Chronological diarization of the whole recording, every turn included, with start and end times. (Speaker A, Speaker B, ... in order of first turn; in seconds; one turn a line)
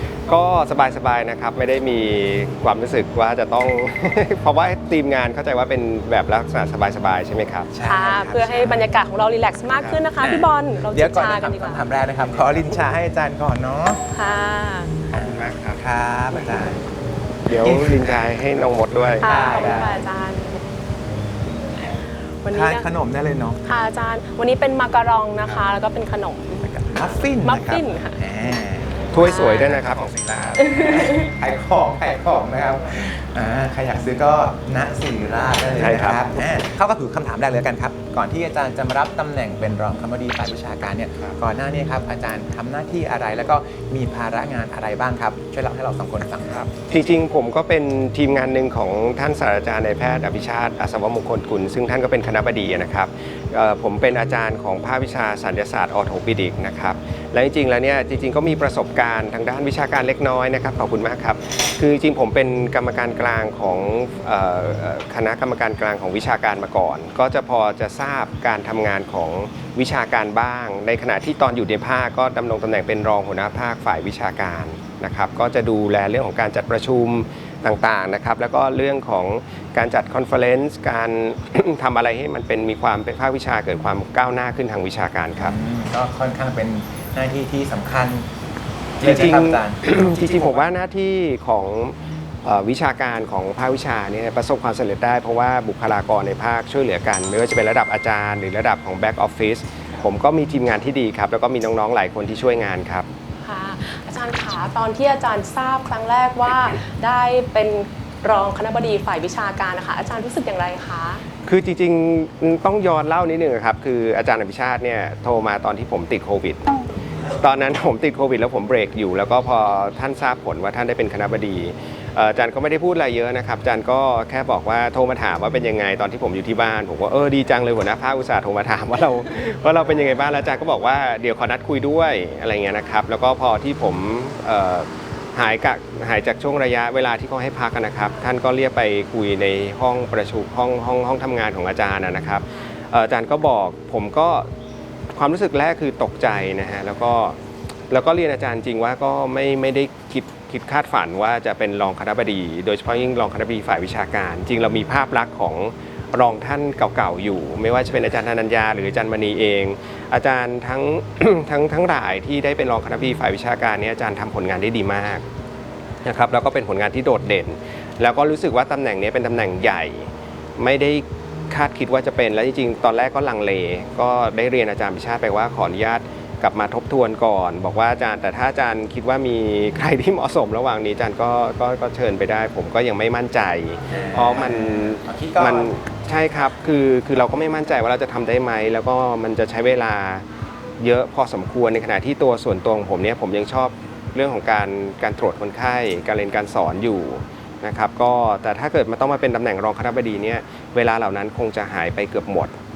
Speaker A: 0.3-7.7
Speaker B: 7.7-8.9
Speaker C: 7.8-11.8
Speaker A: 9.7-10.0
Speaker B: 10.2-14.0
Speaker A: 12.2-12.7
Speaker C: 14.1-15.1
Speaker B: 15.1-16.8
Speaker A: 15.1-15.9
Speaker A: 17.4-19.3
Speaker B: 17.5-18.2
Speaker B: 19.1-20.0
Speaker C: 19.2-20.6
Speaker C: 22.4-22.9
Speaker B: 22.5-23.6
Speaker C: 23.6-28.2
Speaker B: 26.9-46.7
Speaker A: 29.1-30.7
Speaker C: 29.2-29.8
Speaker C: 30.6-31.3
Speaker A: 35.8-36.3
Speaker A: 46.7-85.5
Speaker B: 85.4-88.3
Speaker B: 89.0-90.5
Speaker A: 89.0-103.1
Speaker C: 103.4-111.2
Speaker A: 111.5-116.7
Speaker A: 117.3-144.5
Speaker A: 145.1-147.4
Speaker A: 147.9-165.2
Speaker A: 166.0-190.2
Speaker B: 183.9-185.7
Speaker A: 190.8-202.5